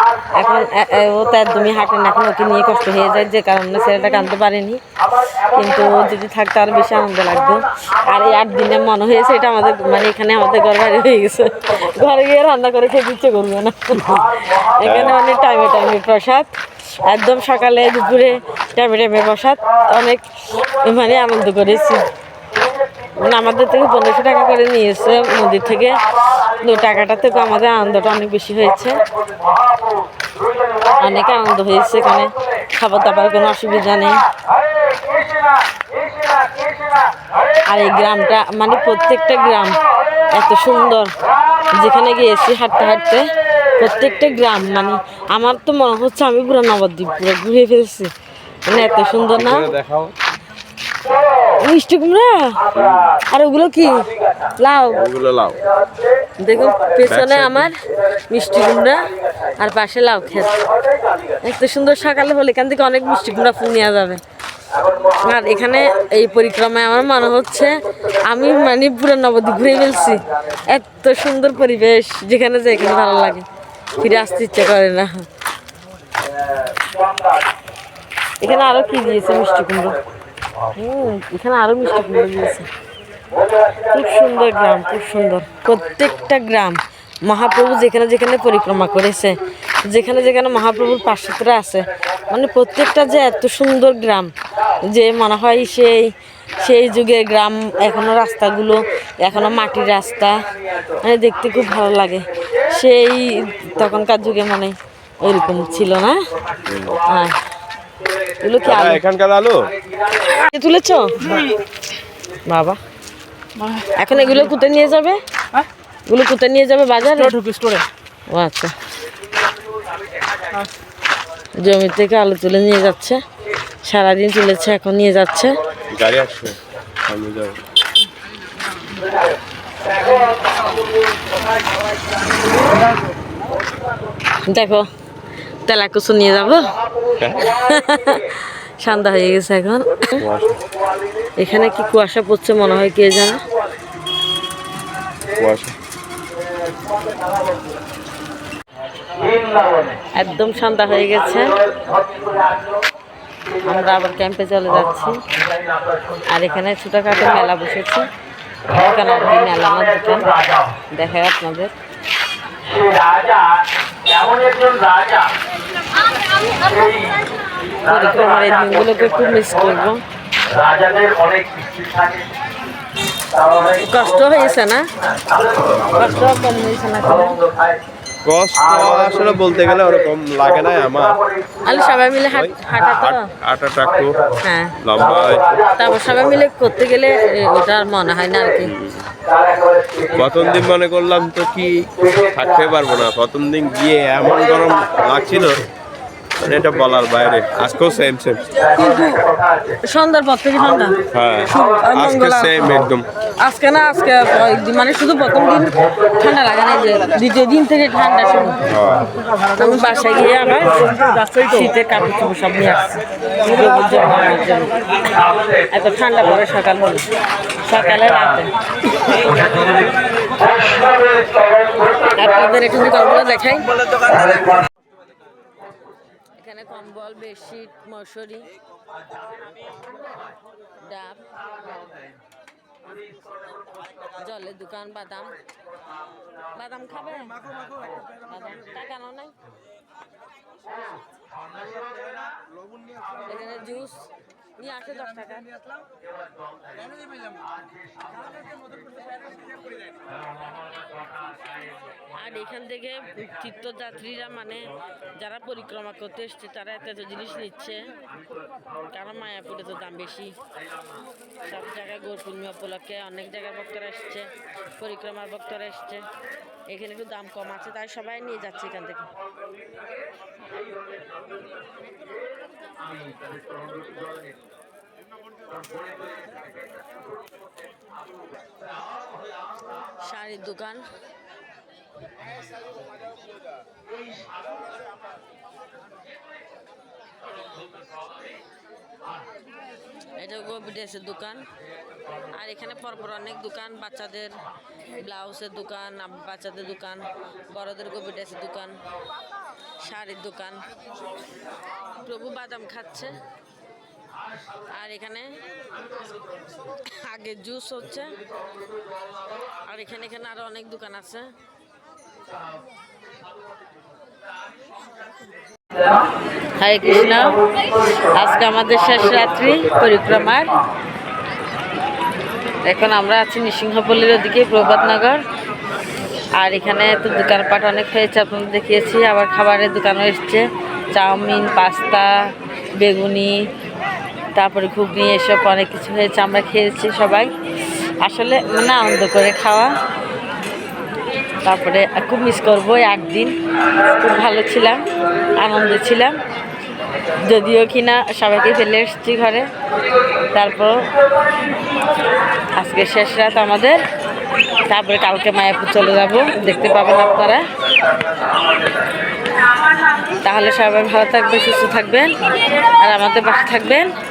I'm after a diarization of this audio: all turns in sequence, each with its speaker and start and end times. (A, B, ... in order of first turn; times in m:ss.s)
0:00.2-0:22.0 A
0:14.8-0:15.2 B
0:23.2-0:29.0 A
0:30.8-0:34.2 A
0:37.7-0:41.1 A
0:41.7-0:48.1 A
0:48.6-0:49.7 A
0:49.3-0:50.1 B
0:51.6-0:52.6 A
0:52.8-0:53.2 B
0:53.3-0:55.0 A
0:55.0-0:55.6 B
0:56.4-0:59.0 A
0:57.0-0:57.7 B
0:59.6-1:00.6 A
1:01.4-1:04.2 A
1:05.0-1:13.5 A
1:14.0-1:15.2 A
1:18.4-1:20.0 A
1:20.7-1:22.7 A
1:23.9-1:34.3 A
1:34.9-1:40.4 A
1:41.0-1:46.2 A
1:46.7-1:47.0 B
1:47.0-1:47.4 A
1:48.4-1:49.0 A
1:48.6-1:49.7 B
1:50.2-1:51.5 A
1:52.5-1:52.8 A
1:53.8-1:55.2 A
1:56.1-1:57.8 A
1:58.3-1:58.7 A
2:01.6-2:03.2 A
2:03.8-2:05.6 A
2:05.9-2:07.6 B
2:14.5-2:14.9 A
2:15.6-2:16.7 A
2:17.2-2:17.5 B
2:17.4-2:20.2 A
2:20.2-2:20.6 B
2:21.4-2:23.4 A
2:25.4-2:25.8 B
2:30.1-2:31.6 A
2:33.5-2:35.2 A
2:36.3-2:38.0 A
2:38.6-2:41.7 A
2:47.8-2:50.0 A
2:53.6-2:54.9 A
2:55.9-2:57.4 A
2:58.2-3:01.2 B
3:01.6-3:03.3 A
3:02.3-3:04.2 B
3:04.4-3:04.8 A
3:04.8-3:05.5 B
3:05.7-3:08.7 A
3:08.6-3:09.1 B
3:10.0-3:15.7 B
3:16.4-3:18.6 B
3:18.7-3:19.2 A
3:19.8-3:22.9 A
3:21.1-3:23.0 B
3:23.4-3:28.7 A
3:28.6-3:29.1 B
3:29.5-3:37.1 A
3:37.6-3:38.5 A
3:41.9-3:44.5 A
3:46.4-3:48.5 A
3:50.8-3:51.2 A
3:54.2-3:55.4 A
3:56.5-3:57.4 A
3:58.2-3:59.3 A
4:03.2-4:05.6 A
4:12.1-4:17.9 A
4:18.9-4:20.4 A
4:21.4-4:26.1 A
4:26.7-4:29.1 A
4:40.0-4:40.9 A
4:50.2-4:51.5 A
4:52.3-4:54.3 A
4:54.9-4:58.8 A
4:59.8-5:00.6 A
5:02.0-5:03.2 A
5:04.7-5:05.3 A
5:06.9-5:08.2 A
5:09.6-5:11.3 A
5:16.6-5:20.6 A
5:22.6-5:25.2 A
5:26.4-5:32.2 A
5:32.8-5:33.4 A
5:34.4-5:37.3 A
5:38.0-5:39.7 A
5:41.4-5:46.2 A
5:47.2-5:49.5 A
5:50.3-5:50.9 A
5:52.5-5:53.8 A
5:54.6-5:57.4 A
6:00.1-6:03.9 A